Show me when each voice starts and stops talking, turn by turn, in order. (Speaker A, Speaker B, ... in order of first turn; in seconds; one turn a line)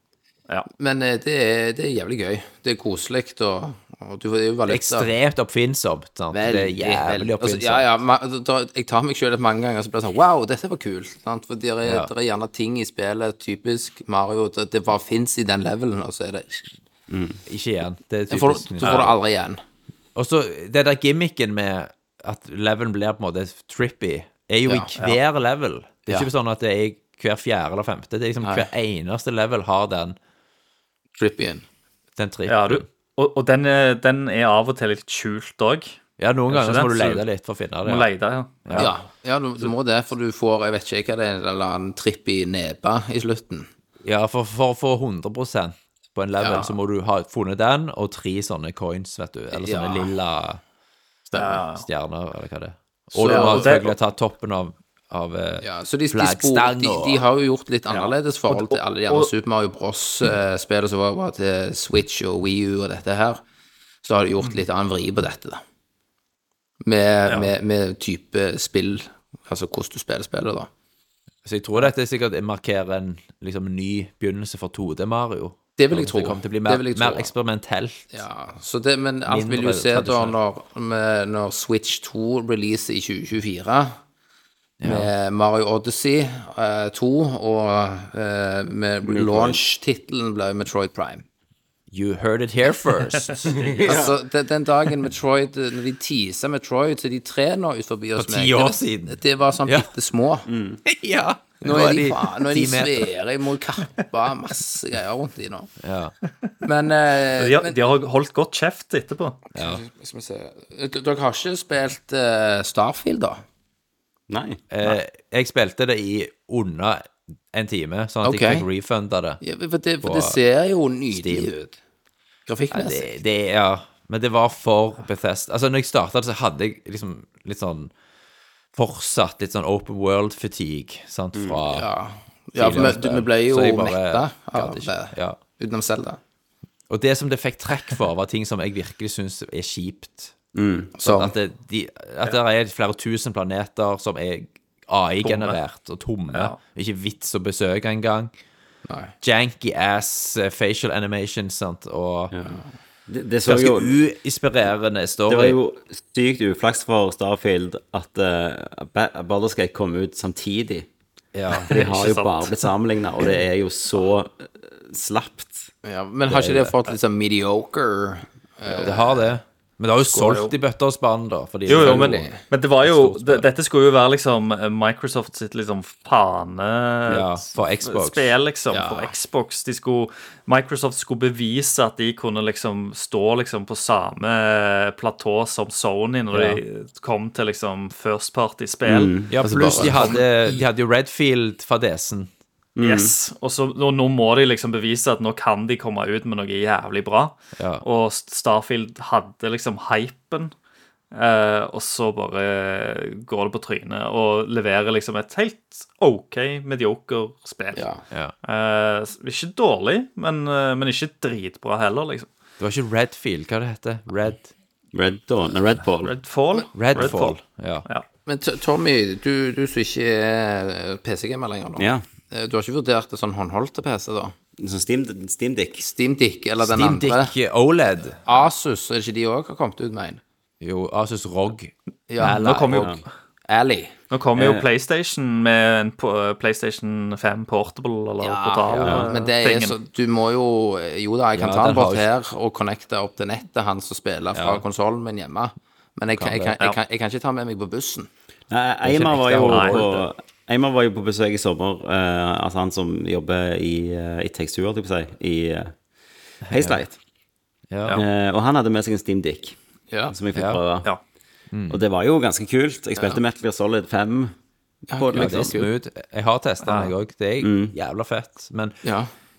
Speaker A: 0.8-5.1
Speaker B: 4.7-7.9
Speaker A: 6.3-16.7
Speaker B: 11.8-12.1
Speaker C: 17.1-17.4
Speaker B: 17.4-19.1
Speaker A: 18.3-19.6
Speaker D: 18.8-19.1
Speaker B: 20.1-30.1
Speaker A: 24.6-24.9
Speaker A: 28.4-28.7
Speaker A: 31.1-31.6
Speaker B: 32.2-32.8
Speaker D: 32.5-37.2
Speaker B: 36.2-38.1
Speaker D: 37.8-38.9
Speaker B: 38.6-38.9
Speaker A: 38.8-43.7
Speaker B: 44.0-50.6
Speaker A: 46.4-46.7
Speaker A: 49.5-50.1
Speaker B: 51.3-57.2
Speaker D: 51.4-51.8
Speaker A: 53.1-53.8
Speaker D: 53.2-53.9
Speaker A: 55.6-63.4
Speaker D: 57.9-59.3
Speaker A: 64.0-65.6
Speaker A: 66.8-70.7
Speaker B: 71.4-78.2
Speaker A: 75.8-77.3
Speaker A: 78.1-84.0
Speaker B: 79.2-80.3
Speaker B: 84.8-85.1
Speaker A: 84.8-91.2
Speaker C: 89.0-89.6
Speaker B: 91.9-93.8
Speaker C: 93.5-94.1
Speaker A: 93.8-100.5
Speaker B: 98.2-99.9
Speaker C: 100.5-100.8
Speaker B: 100.8-103.1
Speaker A: 101.6-105.7
Speaker B: 105.8-106.1
Speaker A: 106.6-107.7
Speaker D: 107.3-109.4
Speaker A: 109.5-113.4
Speaker B: 109.5-109.8
Speaker C: 114.3-114.6
Speaker B: 114.7-119.4
Speaker A: 118.2-118.6
Speaker A: 119.4-121.7
Speaker B: 120.0-120.4
Speaker B: 121.1-121.5
Speaker A: 122.5-123.1
Speaker B: 122.7-127.9
Speaker B: 128.7-131.9
Speaker C: 131.3-131.6
Speaker A: 131.7-136.2
Speaker B: 132.5-135.4
Speaker B: 136.9-140.3
Speaker C: 140.5-140.9
Speaker A: 140.9-141.3
Speaker B: 141.0-148.3
Speaker D: 145.2-145.6
Speaker D: 146.3-146.6
Speaker A: 148.9-149.1
Speaker B: 149.2-152.3
Speaker C: 152.3-152.6
Speaker C: 153.1-153.9
Speaker B: 153.4-155.6
Speaker C: 155.3-160.9
Speaker B: 161.3-161.7
Speaker C: 161.7-165.7
Speaker D: 161.7-162.5
Speaker A: 165.8-169.4
Speaker B: 166.3-166.7
Speaker B: 168.7-173.5
Speaker A: 170.1-170.4
Speaker D: 171.7-189.1
Speaker A: 171.7-172.4
Speaker B: 177.1-178.3
Speaker A: 178.7-179.1
Speaker B: 186.3-186.6
Speaker C: 188.8-190.0
Speaker B: 189.3-192.3
Speaker A: 189.4-190.2
Speaker D: 189.8-190.1
Speaker C: 192.8-193.1
Speaker D: 192.8-200.5
Speaker B: 197.6-197.8
Speaker D: 201.1-207.8
Speaker A: 207.7-208.0
Speaker D: 208.4-212.3
Speaker B: 212.6-214.5
Speaker C: 214.9-216.1
Speaker D: 216.0-218.0
Speaker B: 216.7-217.8
Speaker A: 218.2-224.3
Speaker C: 221.8-222.0
Speaker C: 224.6-225.9
Speaker A: 225.8-227.3
Speaker B: 226.6-228.2
Speaker A: 228.2-230.2
Speaker B: 230.6-232.9
Speaker A: 232.1-232.9
Speaker D: 232.2-233.0
Speaker C: 232.7-233.0
Speaker A: 233.5-233.9
Speaker D: 234.1-239.8
Speaker C: 234.3-234.6
Speaker A: 238.2-248.1
Speaker C: 238.8-239.1
Speaker B: 241.3-242.1
Speaker B: 244.3-244.6
Speaker B: 246.1-246.6
Speaker C: 248.5-255.8
Speaker B: 248.8-250.0
Speaker D: 249.4-250.0
Speaker B: 256.5-256.8
Speaker C: 256.5-257.0
Speaker B: 257.7-258.0
Speaker C: 257.9-259.6
Speaker C: 260.1-260.9
Speaker B: 260.3-260.6
Speaker B: 261.5-261.8
Speaker C: 261.7-264.3
Speaker C: 264.9-265.6
Speaker A: 264.9-265.7
Speaker B: 265.1-268.7
Speaker D: 266.6-266.9
Speaker C: 267.4-267.7
Speaker A: 268.8-269.1